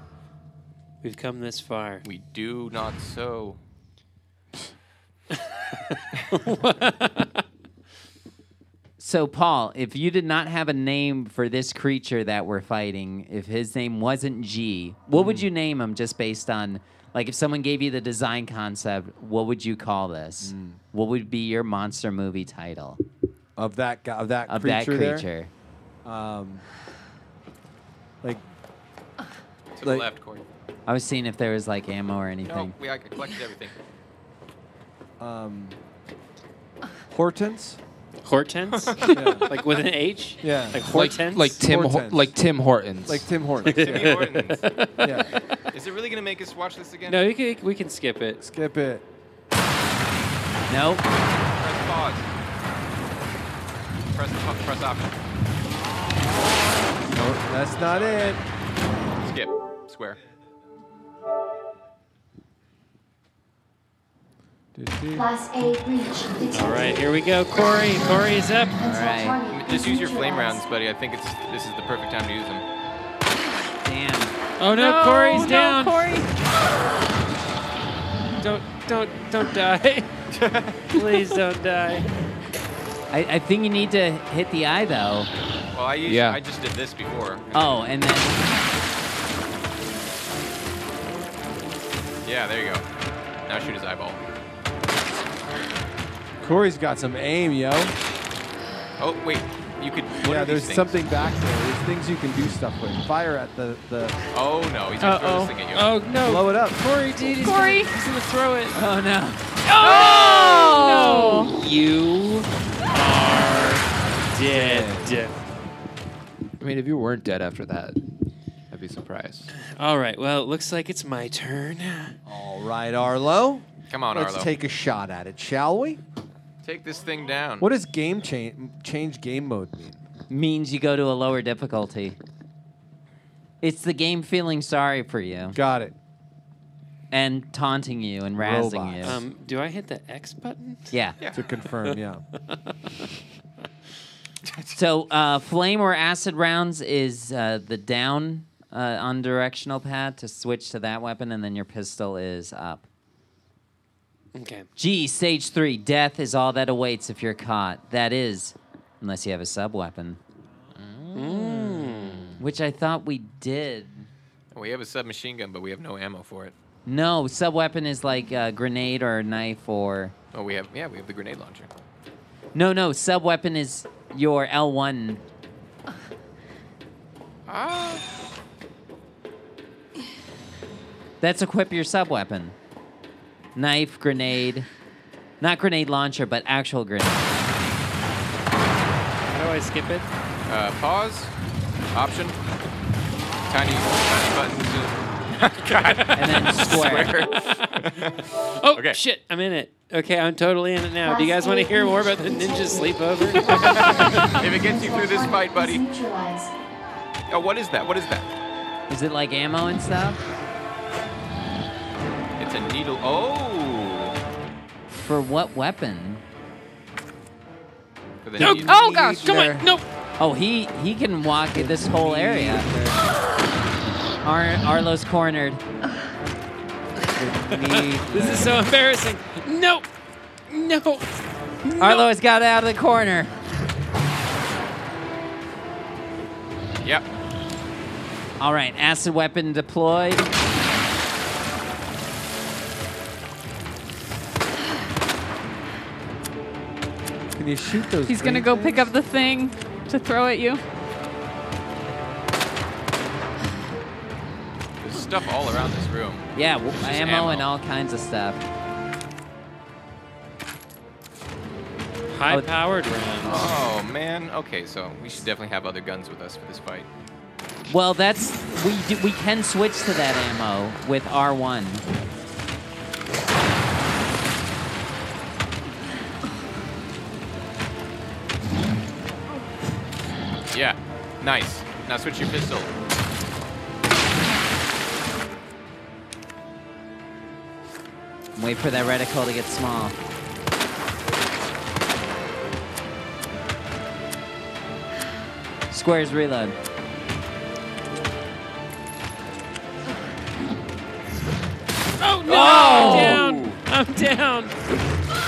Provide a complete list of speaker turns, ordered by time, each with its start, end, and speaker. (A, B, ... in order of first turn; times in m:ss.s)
0:01.0-0:02.0 A
0:02.0-0:03.6 B
0:05.4-0:07.4 A
0:09.0-0:23.0 C
0:15.1-0:15.5 D
0:20.4-0:20.8 D
0:23.6-0:25.3 D
0:24.5-0:25.5 C
0:26.0-0:26.6 D
0:29.8-0:30.4 B
0:29.8-0:30.1 D
0:30.8-0:32.7 C
0:32.4-0:33.7 B
0:35.2-0:35.8 D
0:37.1-0:37.8 D
0:38.2-0:41.6 A
0:38.7-0:39.4 B
0:39.1-0:39.5 D
0:40.4-0:42.3 D
0:40.8-0:43.4 E
0:43.0-0:44.2 D
0:43.6-0:44.7 B
0:43.6-0:45.3 A
0:45.0-0:45.3 D
0:45.7-0:47.3 B
0:47.1-0:48.4 A
0:48.4-0:49.0 D
0:50.7-0:51.0 C
0:51.6-0:52.3 B
0:54.1-0:55.1 B
0:57.1-0:58.4 D
0:57.1-0:58.4 B
0:59.2-1:00.2 B
1:04.7-1:05.3 D
1:05.1-1:07.1 F
1:06.5-1:08.8 A
1:08.8-1:10.6 F
1:08.8-1:09.4 C
1:09.5-1:12.6 B
1:13.8-1:14.3 C
1:14.6-1:16.1 A
1:14.6-1:16.3 G
1:18.4-1:20.1 A
1:20.3-1:20.9 B
1:20.9-1:22.1 A
1:23.1-1:25.3 C
1:25.7-1:27.8 B
1:26.0-1:26.4 E
1:27.5-1:28.4 C
1:32.2-1:32.8 B
1:33.5-1:34.2 B
1:36.4-1:37.9 D
1:39.0-1:41.0 B
1:40.2-1:44.2 D
1:44.3-1:45.9 B
1:45.0-1:45.6 G
1:45.7-1:48.8 A
1:46.2-1:46.9 D
1:47.2-1:48.0 G
1:48.7-1:49.4 C
1:49.6-1:55.3 A
1:49.8-1:51.6 G
1:54.4-1:55.2 D
1:56.6-1:58.0 E
1:58.7-1:59.5 E
1:59.5-2:02.1 A
2:02.2-2:06.0 D
2:03.9-2:04.5 B
2:06.6-2:07.7 B
2:07.6-2:10.0 D
2:10.3-2:12.2 C
2:13.6-2:15.6 C
2:15.5-2:15.9 D
2:17.1-2:19.2 C
2:18.4-2:19.2 D
2:19.0-2:20.9 A
2:20.9-2:21.2 C
2:21.2-2:21.4 B
2:21.3-2:22.2 D
2:21.8-2:23.0 A
2:24.4-2:24.8 B
2:24.7-2:32.8 C
2:34.3-2:34.6 A
2:34.8-2:40.2 C
2:40.8-2:42.3 E
2:41.1-2:42.4 A
2:42.4-2:44.1 C
2:44.5-2:46.5 B
2:46.8-2:50.1 C
2:50.3-2:51.7 B
2:52.5-2:55.2 C
2:57.5-2:58.0 B
3:01.2-3:02.5 C
3:03.6-3:04.7 C
3:05.4-3:07.4 C
3:09.3-3:10.1 A
3:10.5-3:11.3 B
3:11.9-3:12.4 B
3:13.5-3:18.2 B
3:16.1-3:17.2 C
3:18.6-3:24.3 A
3:21.0-3:26.5 F
3:23.6-3:25.8 B
3:27.3-3:28.3 B
3:28.9-3:30.2 C
3:32.4-3:34.2 B
3:34.9-3:36.2 C
3:38.2-3:38.7 B
3:38.4-3:39.8 A
3:38.6-3:39.4 G
3:38.7-3:39.6 D
3:40.2-3:42.8 C
3:41.5-3:42.9 D
3:44.2-3:45.6 C
3:47.2-3:48.6 D
3:47.6-3:49.8 A
3:50.5-3:51.1 A
3:51.6-3:52.1 A
3:51.8-3:53.3 C
3:58.4-4:00.3 C
4:07.3-4:08.9 D
4:08.0-4:10.6 G
4:14.8-4:16.3 B
4:16.3-4:18.4 C
4:16.8-4:17.5 B
4:22.1-4:23.5 A
4:23.2-4:26.9 B
4:27.7-4:31.8 C
4:40.5-4:42.7 B
4:48.4-4:50.0 C
4:55.7-4:56.6 C
5:02.0-5:04.5 A
5:02.2-5:03.6 B
5:02.3-5:03.2 C